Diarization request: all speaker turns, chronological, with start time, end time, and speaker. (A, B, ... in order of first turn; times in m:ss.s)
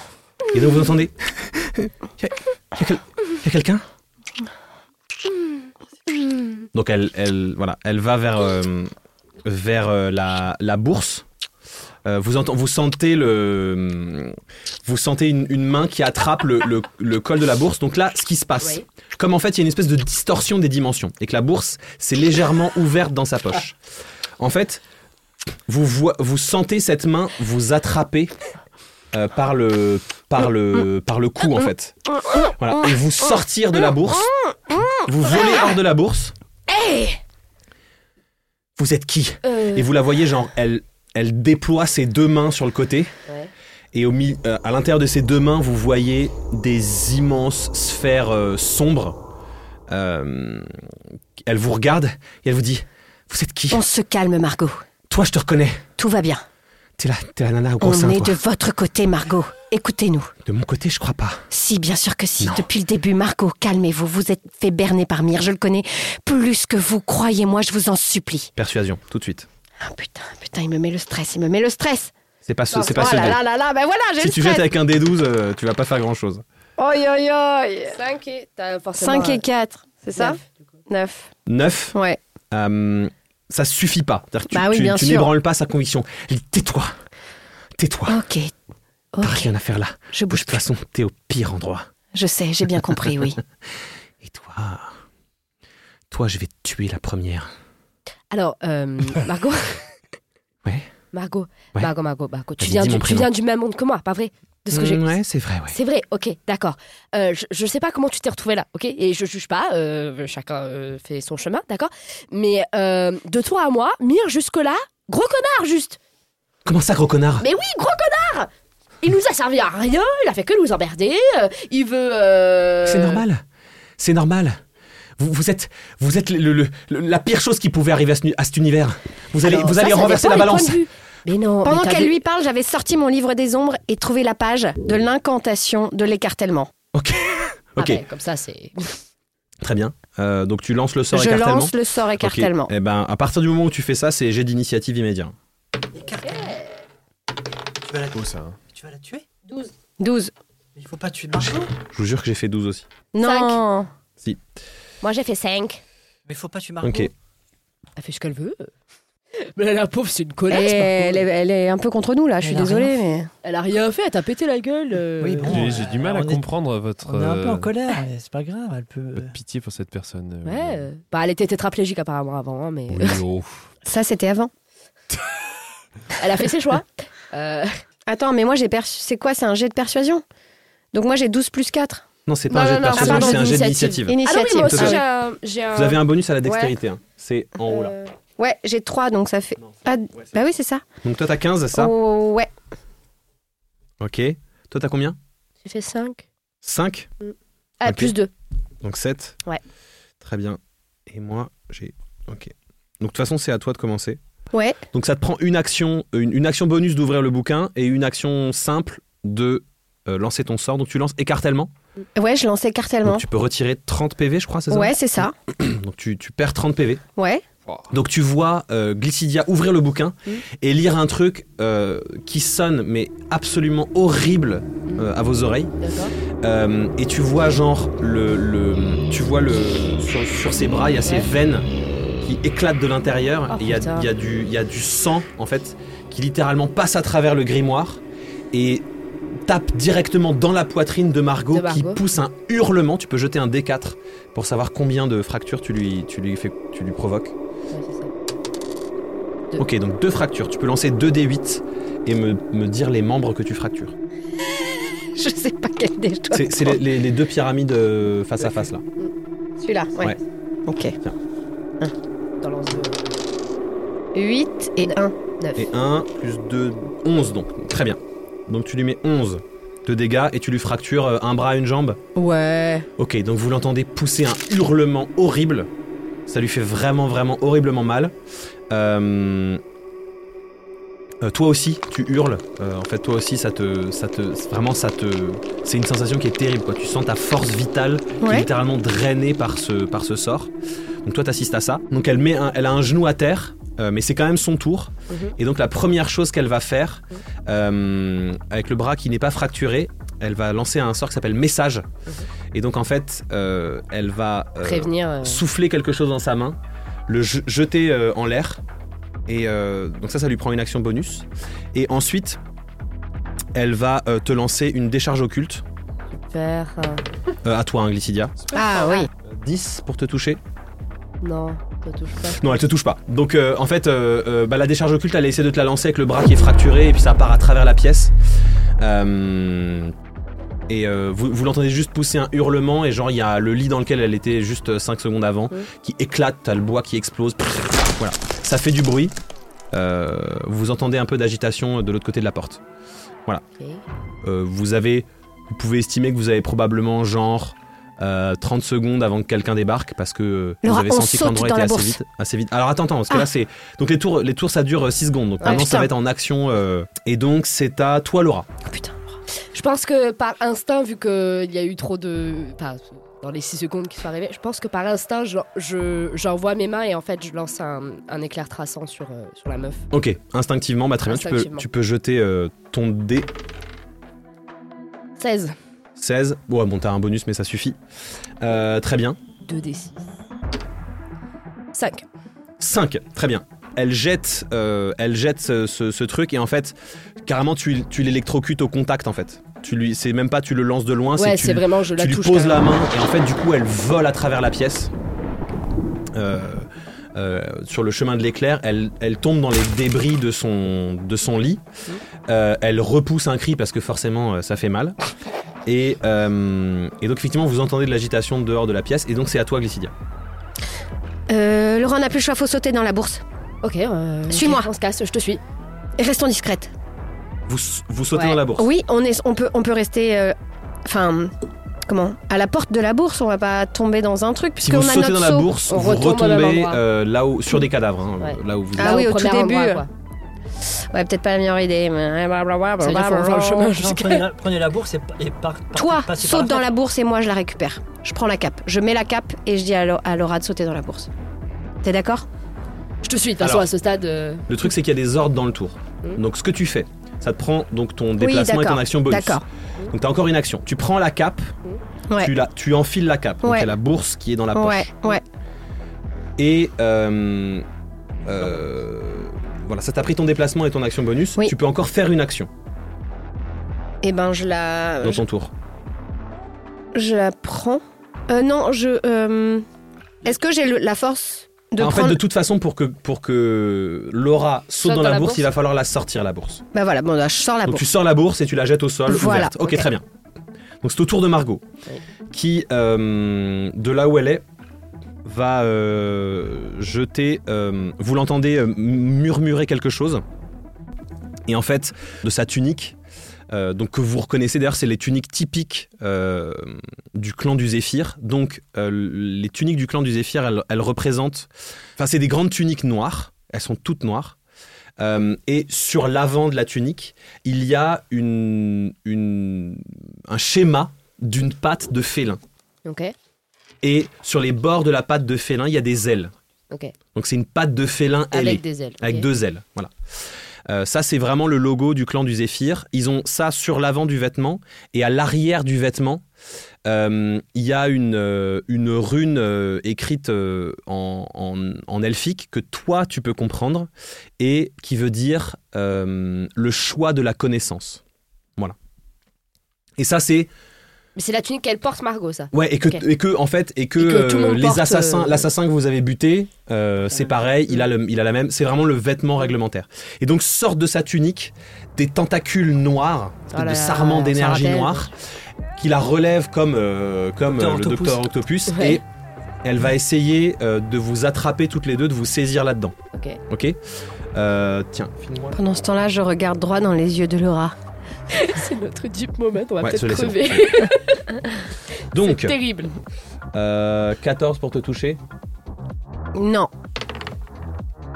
0:00.5-0:03.8 A
0:06.7-0:08.9 A
0:09.4-0:11.2 A
0:12.0-0:23.8 A
0:18.6-0:18.8 B
0:24.4-0:24.8 A
0:25.7-0:28.3 A
0:29.1-0:34.3 A
0:32.3-0:32.9 C
0:34.2-0:35.6 C
0:35.0-0:36.3 A
0:36.7-0:37.2 C
0:38.8-0:43.1 A
0:39.4-0:39.9 B
0:43.9-0:49.2 A
0:49.9-0:50.8 A
0:51.4-0:53.8 A
0:53.7-0:54.8 C
0:55.1-0:55.8 A
0:56.0-0:56.4 C
0:57.0-0:58.4 A
0:57.8-1:00.3 C
1:00.4-1:01.5 A
1:01.5-1:08.5 C
1:02.4-1:02.7 A
1:08.6-1:09.5 A
1:09.8-1:12.1 C
1:12.4-1:13.4 A
1:12.7-1:13.4 B
1:12.8-1:14.7 C
1:14.2-1:16.4 A
1:16.8-1:18.0 C
1:17.9-1:19.4 B
1:19.0-1:21.3 C
1:20.1-1:20.5 B
1:21.5-1:22.0 A
1:21.9-1:22.2 C
1:22.5-1:26.9 A
1:24.5-1:25.3 C
1:27.8-1:28.2 A
1:28.1-1:28.5 C
1:29.1-1:29.5 C
1:29.2-1:31.9 A
1:30.1-1:30.6 C
1:32.1-1:33.4 C
1:34.2-1:34.9 A
1:36.1-1:37.5 A
1:38.3-1:39.8 B
1:40.6-1:40.9 A
1:41.1-1:45.2 B
1:42.6-1:43.3 A
1:44.7-1:45.8 A
1:45.7-1:56.0 B
1:56.6-1:57.4 A
1:57.4-1:58.5 B
1:59.0-2:03.2 B
2:02.8-2:03.4 A
2:04.0-2:04.6 A
2:05.2-2:10.8 A
2:09.5-2:10.5 C
2:09.5-2:12.2 B
2:11.6-2:16.7 C
2:16.9-2:18.0 A
2:17.8-2:19.0 B
2:19.6-2:25.3 A
2:21.1-2:22.7 C
2:26.0-2:26.6 D
2:26.2-2:26.6 B
2:27.8-2:29.2 D
2:28.1-2:28.6 E
2:30.0-2:30.3 C
2:30.7-2:31.8 D
2:31.8-2:32.8 A
2:33.1-2:33.9 C
2:33.2-2:33.6 B
2:35.0-2:35.8 B
2:36.3-2:37.1 D
2:36.8-2:37.1 A
2:38.0-2:38.7 B
2:39.4-2:41.2 B
2:40.5-2:43.3 C
2:42.4-2:43.0 D
2:43.4-2:45.7 B
2:45.2-2:46.4 D
2:45.4-2:47.7 E
2:47.0-2:49.3 D
2:49.1-2:50.9 E
2:50.4-2:53.2 B
2:52.9-2:53.6 E
2:53.8-2:54.5 C
2:56.2-2:57.7 B
2:58.1-3:00.2 C
3:00.9-3:02.0 C
3:02.2-3:05.0 A
3:02.5-3:06.0 B
3:02.9-3:05.0 C
3:05.7-3:07.9 A
3:06.4-3:06.7 C
3:07.7-3:08.1 B
3:08.4-3:10.8 C
3:09.6-3:10.3 A
3:11.0-3:11.9 A
3:11.7-3:12.5 C
3:14.0-3:15.2 A
3:15.6-3:16.2 B
3:16.6-3:17.1 A
3:17.2-3:18.3 B
3:17.8-3:18.1 A
3:18.8-3:19.4 A
3:20.2-3:24.2 A
3:24.5-3:24.8 C
3:24.9-3:31.7 A
3:32.2-3:33.2 C
3:33.0-3:37.0 A
3:34.7-3:35.3 C
3:37.2-3:37.4 C
3:37.9-3:45.7 A
3:45.8-3:46.1 B
3:46.4-3:51.7 A
3:51.0-3:51.3 B
3:52.2-3:58.8 A
3:53.5-3:54.1 B
3:59.4-4:07.3 A
4:01.5-4:02.0 B
4:07.7-4:08.1 B
4:09.6-4:13.9 A
4:15.1-4:16.8 C
4:16.3-4:18.8 A
4:19.6-4:20.2 C
4:20.7-4:21.0 C
4:22.4-4:23.2 B
4:24.1-4:25.1 C
4:24.8-4:25.7 B
4:25.6-4:32.0 A
4:32.1-4:32.9 C
4:33.0-4:35.7 A
4:36.3-4:38.1 A
4:38.7-4:39.6 A
4:41.2-4:50.5 A
4:48.2-4:48.5 C
4:51.0-5:01.9 A
4:55.1-4:55.3 B
5:02.5-5:08.6 A
5:04.6-5:05.4 B
5:09.3-5:12.4 A
5:13.5-5:15.6 A
5:16.3-5:17.0 B
5:17.4-5:18.4 A
5:18.5-5:19.1 C
5:18.6-5:19.0 B
5:19.2-5:20.4 A
5:21.2-5:22.4 B
5:22.3-5:28.1 A
5:28.8-5:29.9 A
5:30.7-5:39.1 A
5:39.7-5:42.6 A
5:44.2-5:58.5 A
5:50.6-5:52.0 C
5:55.4-5:55.9 C
5:58.6-5:59.0 C
5:59.5-6:09.9 B
6:09.9-6:13.3 A
6:11.0-6:11.7 B
6:15.2-6:15.6 B
6:16.0-6:17.8 A
6:18.4-6:19.2 A
6:19.4-6:20.0 B
6:21.7-6:22.0 B
6:22.6-6:34.9 A
6:31.2-6:32.8 B
6:36.1-6:41.6 A
6:42.2-6:45.0 A
6:45.6-6:49.9 A
6:51.3-6:53.2 C
6:53.6-6:55.4 B
6:54.3-6:54.7 C
6:56.0-6:56.7 C
6:57.5-6:58.7 A
6:58.1-6:58.4 B
6:58.5-7:01.3 C
7:01.8-7:05.5 C
7:04.6-7:09.1 A
7:05.7-7:06.8 B
7:08.2-7:09.9 B
7:08.8-7:09.8 C
7:10.6-7:13.7 C
7:12.8-7:14.3 B
7:13.8-7:16.7 D
7:15.7-7:21.1 C
7:21.8-7:22.3 C
7:23.0-7:24.5 B
7:23.4-7:23.7 A
7:24.5-7:31.5 A
7:28.2-7:29.4 C
7:32.1-7:32.3 C
7:32.2-7:35.2 A
7:33.4-7:33.7 C
7:34.5-7:35.2 C
7:36.4-7:37.6 A
7:38.2-7:42.5 A
7:44.0-7:45.2 C
7:45.0-7:45.5 A
7:46.9-7:49.6 C
7:50.2-7:52.2 C
7:51.8-7:56.6 A
7:54.8-7:55.4 B
7:56.7-7:57.8 C
7:57.6-8:00.0 A
7:59.1-7:59.9 C
8:00.8-8:01.6 A
8:02.3-8:04.4 A
8:05.2-8:10.2 A
8:11.5-8:13.0 A
8:13.5-8:24.4 A
8:25.0-8:32.4 A
8:32.8-8:33.1 B
8:33.8-8:36.3 A
8:36.7-8:36.9 B
8:37.1-8:39.9 A
8:38.3-8:39.3 B
8:40.7-8:46.2 A
8:46.8-8:58.0 A
9:00.0-9:00.5 A
9:01.2-9:03.0 B
9:02.5-9:15.1 A
9:04.0-9:05.5 B
9:13.5-9:15.1 B
9:15.8-9:19.0 A
9:17.4-9:18.2 D
9:18.6-9:19.0 B
9:19.6-9:22.9 A
9:23.1-9:23.4 B
9:23.5-9:23.8 A
9:24.3-9:25.6 A
9:25.5-9:27.7 C
9:28.3-9:31.6 B
9:29.8-9:30.8 A
9:32.1-9:32.6 A
9:32.2-9:33.0 B
9:33.5-9:35.2 A
9:36.3-9:36.7 C